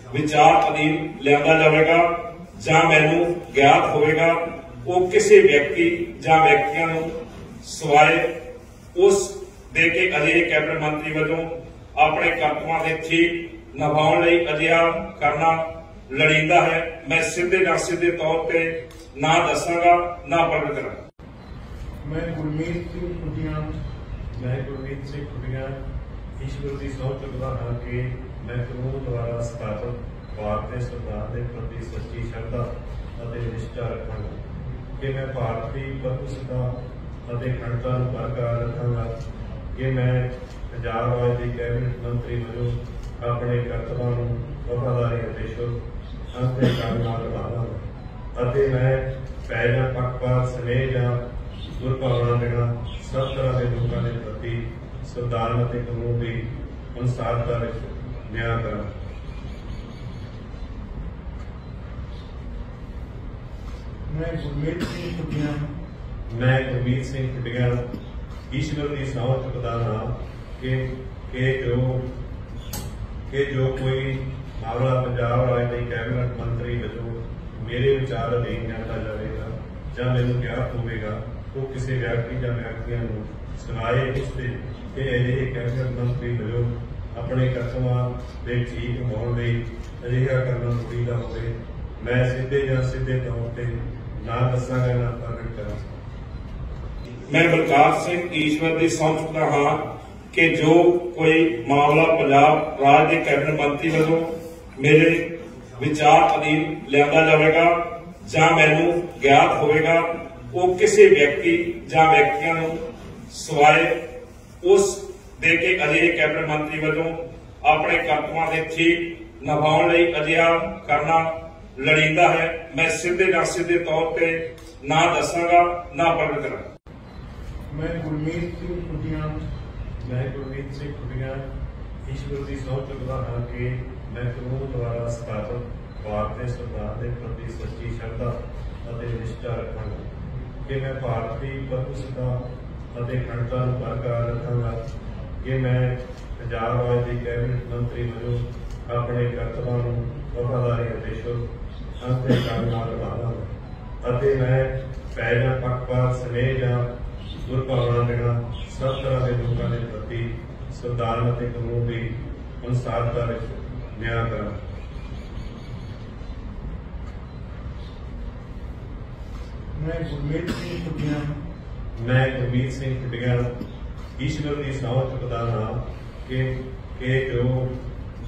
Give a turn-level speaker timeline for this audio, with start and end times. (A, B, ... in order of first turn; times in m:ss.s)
0:00.1-0:08.3 A
0:08.9-0:21.0 A
0:22.0-0:23.7 B
0:24.3-0:25.8 B
0:26.4-0:34.4 B
0:35.0-0:36.7 B
0:37.3-0:39.2 B
0:39.7-0:45.8 B
0:46.3-0:51.2 B
0:51.8-0:58.9 B
1:04.1-1:05.7 C
1:06.3-1:07.8 B
1:08.5-1:12.1 B
1:13.3-1:36.0 B
1:37.3-1:45.2 A
1:45.8-1:54.0 A
1:54.6-2:06.6 A
2:07.7-2:09.4 B
2:08.0-2:08.3 C
2:10.0-2:11.5 B
2:12.1-2:20.1 B
2:20.6-2:24.8 B
2:25.4-2:31.4 B
2:32.0-2:36.8 B
2:37.4-2:44.6 B
2:49.8-2:51.4 C
2:52.0-2:53.5 B
2:54.2-2:57.8 B